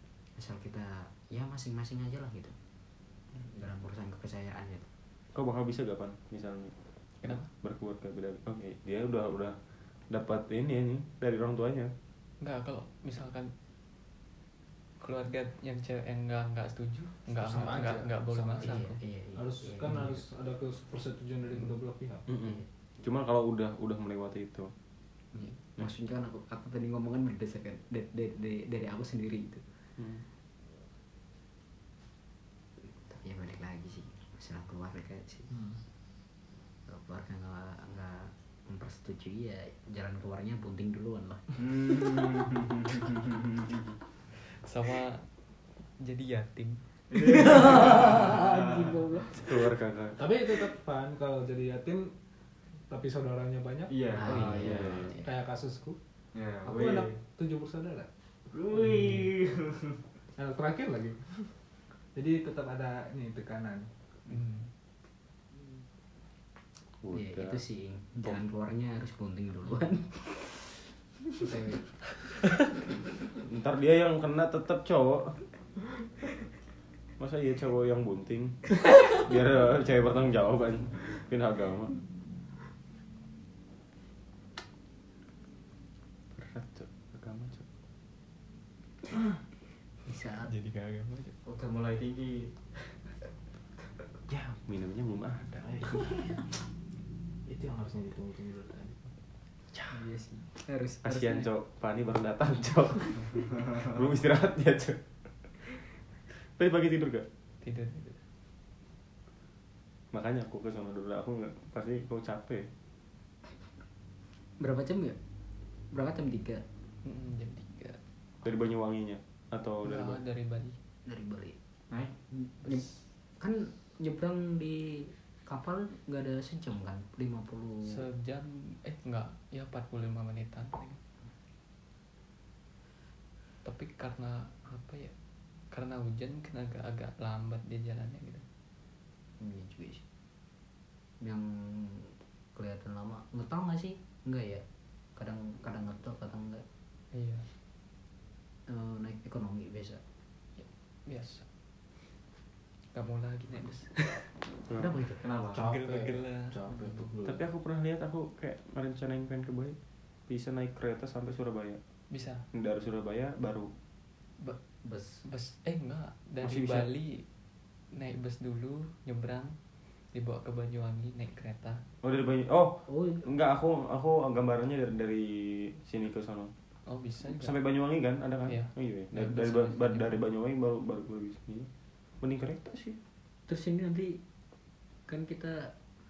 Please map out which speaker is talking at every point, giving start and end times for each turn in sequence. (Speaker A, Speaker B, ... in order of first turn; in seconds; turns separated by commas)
Speaker A: 0.4-2.6, Speaker A: 3.5-4.9, Speaker B: 5.3-6.7, Speaker C: 7.2-7.5, Speaker B: 7.3-9.6, Speaker B: 10.1-11.9, Speaker C: 12.4-13.5, Speaker C: 15.0-19.0, Speaker D: 17.4-22.3, Speaker A: 18.6-20.2, Speaker B: 22.3-24.7, Speaker A: 22.4-22.6, Speaker A: 25.3-29.6, Speaker B: 30.0-30.2, Speaker A: 32.8-35.5, Speaker D: 35.5-35.8, Speaker A: 36.9-41.6, Speaker E: 41.6-43.9, Speaker C: 44.5-45.3, Speaker C: 45.8-48.0, Speaker E: 47.1-49.0, Speaker A: 47.4-49.7, Speaker B: 49.4-50.3, Speaker D: 50.2-52.1, Speaker D: 52.9-54.1, Speaker E: 53.9-55.0, Speaker A: 54.1-55.3, Speaker B: 54.4-55.2, Speaker D: 55.1-56.0, Speaker E: 56.4-57.2, Speaker D: 56.6-58.1, Speaker E: 58.5-60.0, Speaker D: 58.7-59.2, Speaker D: 60.4-61.5, Speaker D: 62.1-63.9, Speaker C: 64.3-64.7, Speaker B: 67.0-67.6, Speaker A: 67.1-71.9, Speaker B: 73.5-75.4, Speaker B: 77.2-82.0, Speaker B: 86.3-87.7, Speaker A: 90.1-90.5, Speaker B: 90.5-91.3, Speaker E: 91.4-93.0, Speaker B: 94.3-96.0, Speaker D: 95.6-96.1, Speaker A: 96.0-96.4, Speaker D: 97.5-99.0, Speaker A: 99.9-101.5, Speaker B: 101.0-105.0, Speaker B: 106.6-107.3, Speaker C: 107.6-108.2, Speaker B: 110.1-112.7, Speaker A: 114.6-115.2, Speaker A: 115.9-116.6, Speaker C: 117.0-118.0, Speaker B: 118.4-120.2, Speaker C: 119.8-120.8, Speaker A: 121.0-121.6, Speaker A: 122.3-128.0, Speaker C: 127.8-131.0, Speaker C: 133.6-135.1, Speaker C: 135.7-138.4, Speaker A: 139.4-140.0, Speaker A: 141.2-146.6, Speaker C: 147.1-147.5, Speaker A: 148.7-150.0, Speaker C: 150.6-151.5, Speaker C: 152.9-154.2, Speaker B: 154.7-154.9, Speaker A: 154.7-155.2, Speaker E: 155.2-155.6, Speaker D: 155.5-157.4, Speaker C: 155.6-156.6, Speaker B: 157.2-159.8, Speaker B: 160.3-161.8, Speaker C: 162.1-162.4, Speaker B: 162.5-163.7, Speaker A: 164.8-165.2, Speaker C: 165.2-167.3, Speaker B: 166.4-166.9, Speaker C: 167.9-169.6, Speaker C: 170.1-171.8, Speaker B: 172.0-176.5, Speaker A: 172.9-173.2, Speaker C: 176.9-177.6, Speaker B: 177.3-181.7, Speaker C: 178.5-180.1, Speaker B: 182.2-183.0, Speaker A: 183.5-184.2, Speaker A: 185.1-185.7